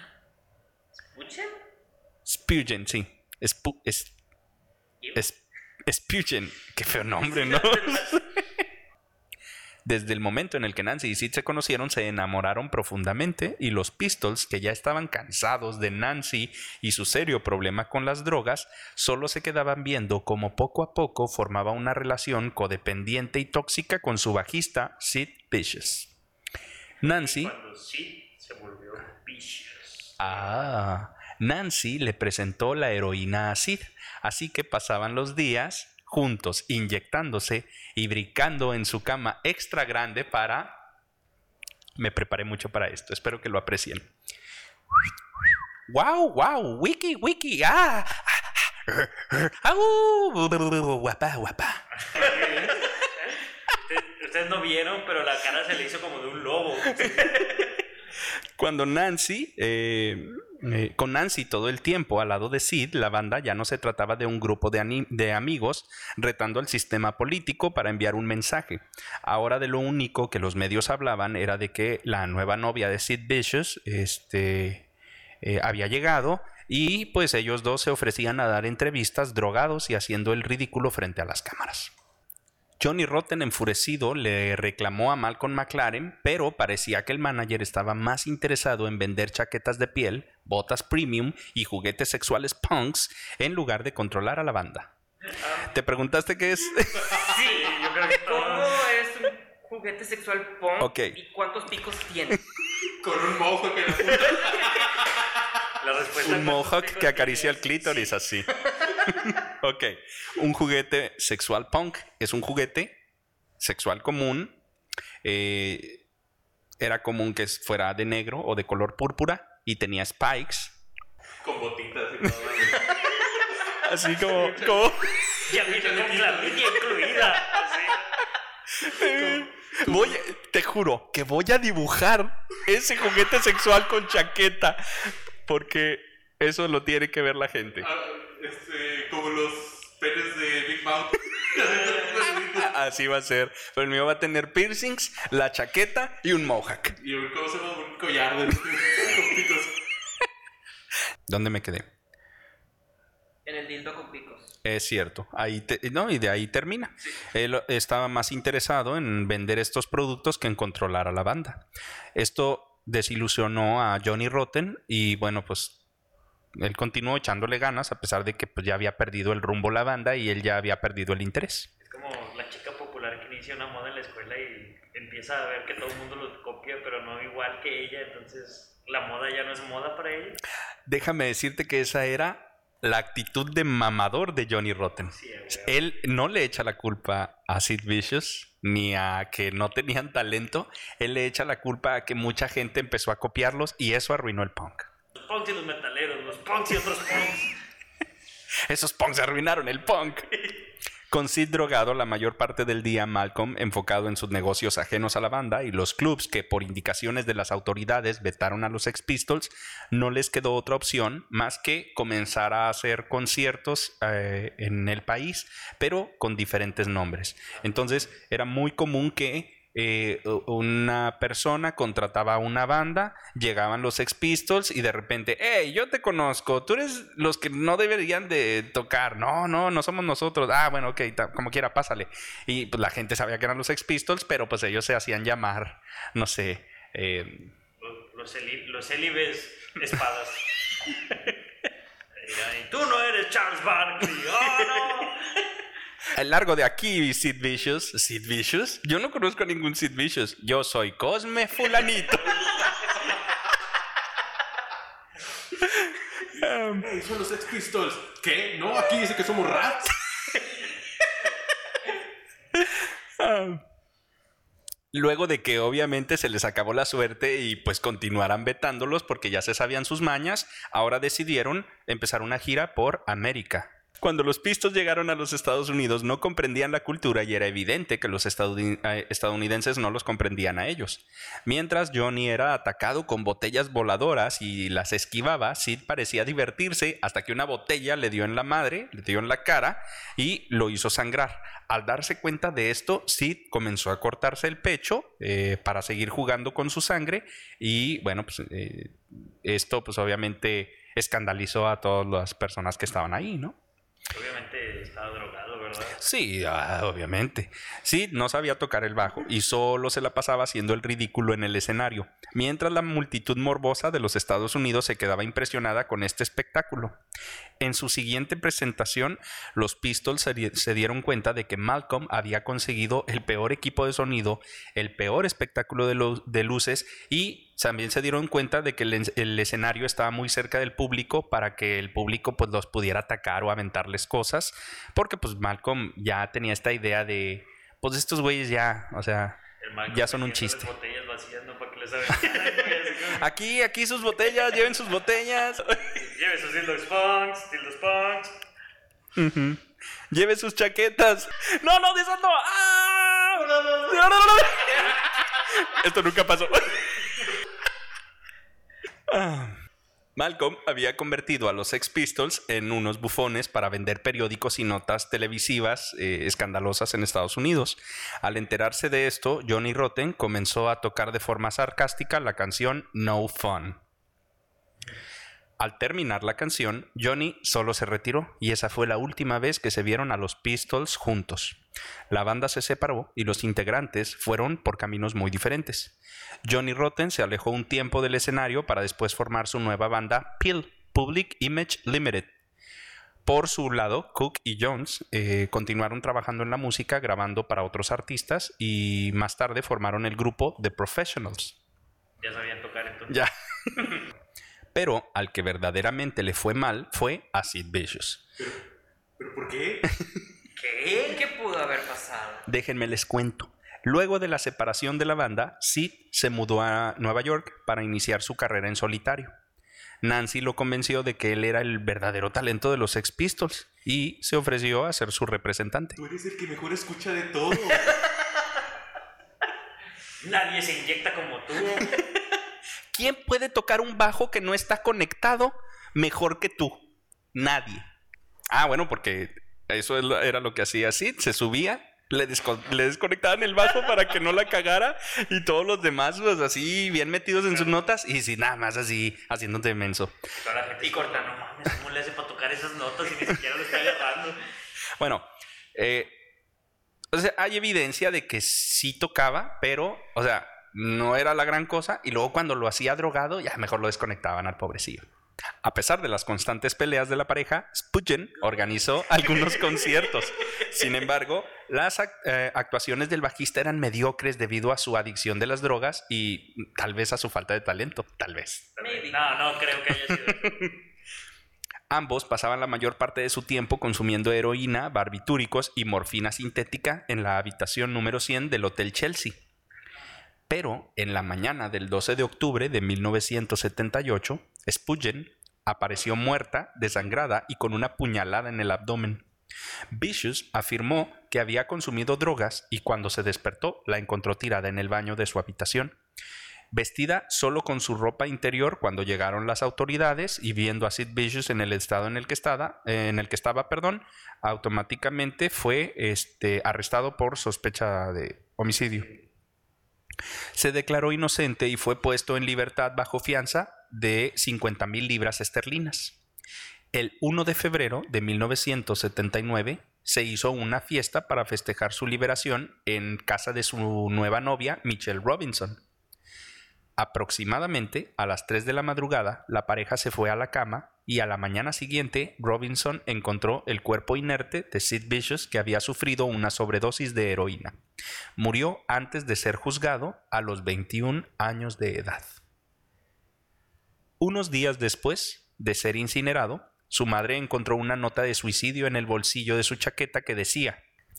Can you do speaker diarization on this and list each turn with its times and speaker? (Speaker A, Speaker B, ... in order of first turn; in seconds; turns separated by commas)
Speaker A: 1.1-1.5, Speaker B: 2.3-4.1, Speaker B: 5.2-8.2, Speaker A: 7.2-8.1, Speaker B: 9.8-26.1, Speaker B: 27.0-27.5, Speaker C: 27.0-30.5, Speaker B: 30.2-40.8, Speaker B: 42.0-44.1, Speaker B: 45.9-52.3, Speaker C: 52.1-52.8, Speaker C: 53.7-57.4, Speaker B: 57.0-57.5, Speaker B: 58.6-74.9, Speaker B: 75.4-81.9, Speaker B: 82.8-94.9, Speaker B: 95.6-97.2, Speaker A: 97.2-102.4, Speaker C: 97.4-98.8, Speaker B: 100.8-101.2, Speaker D: 103.0-105.3, Speaker C: 105.8-108.2, Speaker B: 106.2-108.5, Speaker B: 109.2-113.0, Speaker B: 113.6-114.6, Speaker B: 115.2-116.0, Speaker B: 116.8-120.8, Speaker D: 121.4-123.0, Speaker B: 123.8-125.2, Speaker D: 124.1-127.5, Speaker C: 125.5-128.1, Speaker B: 128.8-137.9, Speaker D: 129.0-130.2, Speaker D: 137.8-142.7, Speaker B: 142.5-147.0, Speaker D: 147.0-149.8, Speaker B: 151.3-151.9, Speaker A: 153.4-154.6, Speaker B: 154.6-161.6, Speaker B: 162.2-165.8, Speaker B: 166.6-171.7, Speaker C: 171.8-180.4, Speaker B: 180.9-194.9, Speaker C: 185.1-185.9, Speaker C: 195.2-197.6, Speaker B: 198.7-200.3, Speaker B: 201.1-237.5, Speaker C: 237.8-240.4, Speaker C: 242.2-245.2, Speaker B: 246.2-252.5, Speaker B: 255.8-256.9, Speaker D: 256.7-259.9, Speaker B: 262.6-263.6, Speaker B: 264.9-303.6, Speaker C: 304.1-306.0, Speaker B: 306.0-317.0, Speaker B: 317.6-340.7, Speaker C: 339.6-343.3, Speaker B: 343.1-345.8, Speaker C: 346.0-348.3, Speaker B: 349.2-356.9, Speaker B: 359.1-359.6, Speaker B: 360.2-373.8, Speaker B: 375.6-381.6, Speaker B: 382.1-392.3, Speaker B: 393.2-401.6, Speaker C: 402.2-403.2, Speaker B: 403.1-403.9, Speaker B: 404.7-408.2, Speaker D: 409.2-409.9, Speaker C: 410.6-411.2, Speaker A: 410.6-412.5, Speaker B: 412.5-419.3, Speaker B: 420.0-426.0, Speaker D: 426.0-428.0, Speaker C: 430.2-431.9, Speaker B: 432.9-437.9, Speaker B: 438.5-450.2, Speaker C: 447.4-447.8, Speaker C: 450.4-454.4, Speaker A: 450.8-451.3, Speaker B: 455.0-456.1, Speaker B: 457.1-465.1, Speaker B: 465.6-478.7, Speaker C: 478.8-480.7, Speaker A: 478.8-479.2, Speaker B: 481.9-489.4, Speaker B: 490.5-499.3, Speaker B: 499.9-506.0, Speaker B: 506.7-519.2, Speaker B: 520.5-526.2, Speaker B: 526.9-535.8, Speaker B: 537.0-547.8, Speaker B: 548.4-552.3, Speaker B: 554.2-560.8